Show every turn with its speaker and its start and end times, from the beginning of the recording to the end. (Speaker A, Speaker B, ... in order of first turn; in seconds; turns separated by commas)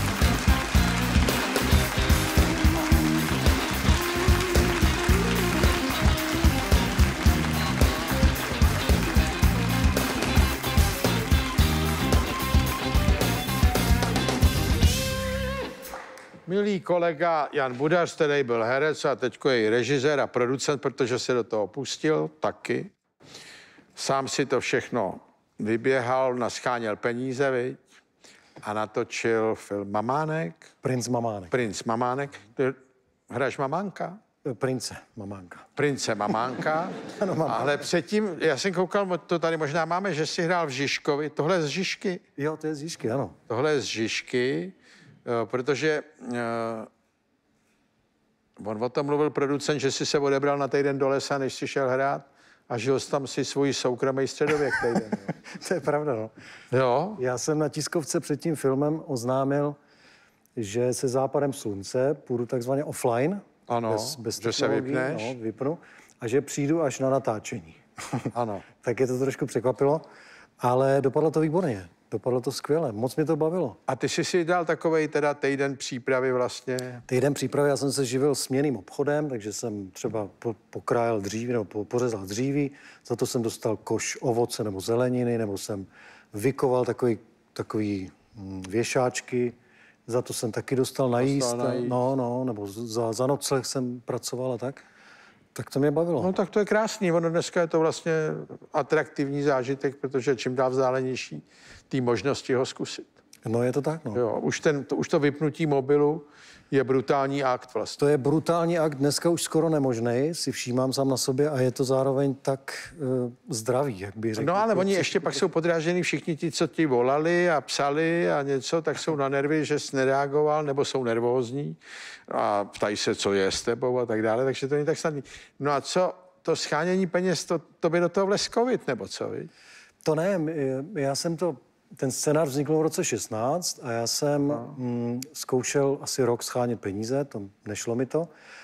Speaker A: 16.4-22.9, Speaker A: 23.9-27.8, Speaker A: 28.6-30.7, Speaker B: 30.8-31.5, Speaker A: 31.5-34.2, Speaker B: 34.4-35.6, Speaker A: 35.8-42.2, Speaker B: 37.1-37.8, Speaker B: 42.4-43.4, Speaker A: 43.5-46.9, Speaker A: 48.6-55.3, Speaker B: 55.4-56.3, Speaker A: 56.7-57.2, Speaker B: 57.2-59.8, Speaker B: 60.5-68.3, Speaker A: 63.7-65.3, Speaker A: 68.3-68.7, Speaker B: 68.8-70.0, Speaker B: 70.6-73.8, Speaker A: 73.9-77.0, Speaker B: 77.1-89.5, Speaker B: 90.1-94.8, Speaker A: 91.2-92.0, Speaker B: 95.5-96.3, Speaker A: 96.2-103.1, Speaker B: 103.4-104.2, Speaker A: 104.1-108.0, Speaker B: 108.0-115.5, Speaker A: 114.4-129.5, Speaker B: 130.0-138.3